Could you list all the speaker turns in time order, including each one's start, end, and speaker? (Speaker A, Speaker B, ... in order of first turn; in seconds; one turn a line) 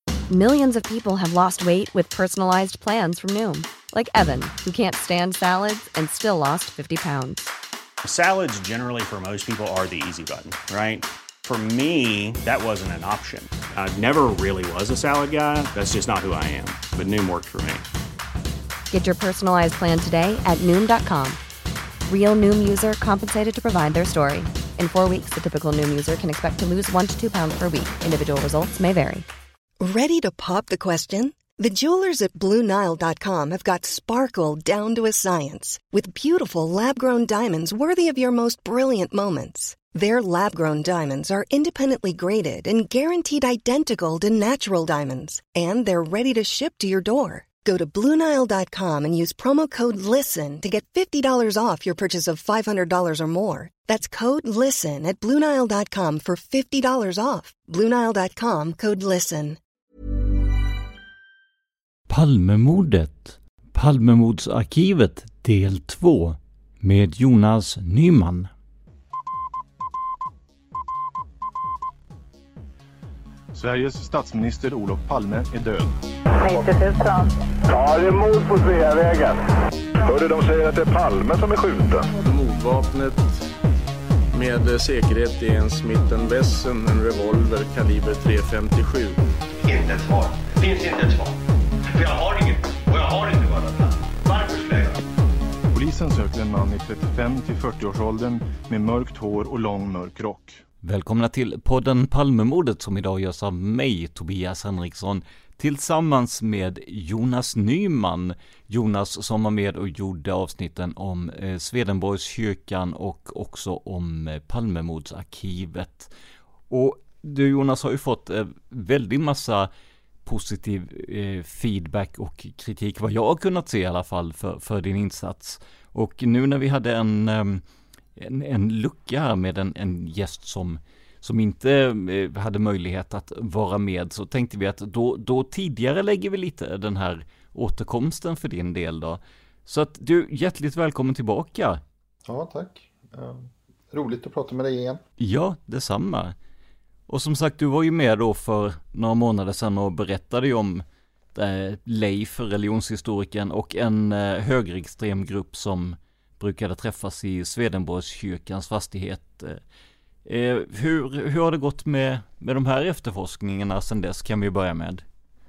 Speaker A: 0.3-7.5
Speaker B: 8.0-17.9
Speaker A: 18.9-21.4
Speaker A: 22.1-29.3
Speaker C: 29.8-59.6
Speaker D: 62.1-68.5
Speaker E: 73.5-76.0
Speaker F: 76.4-77.3
Speaker G: 77.7-79.4
Speaker G: 80.0-82.1
Speaker H: 82.2-83.4
Speaker H: 84.3-89.2
Speaker F: 89.7-91.3
Speaker F: 91.9-95.0
Speaker E: 95.7-100.6
Speaker D: 100.8-116.1
Speaker D: 116.7-119.7
Speaker D: 120.2-127.6
Speaker D: 128.2-141.8
Speaker I: 142.2-145.0
Speaker D: 145.2-146.3
Speaker D: 147.1-150.8
Speaker D: 151.3-159.6
Speaker D: 160.2-165.0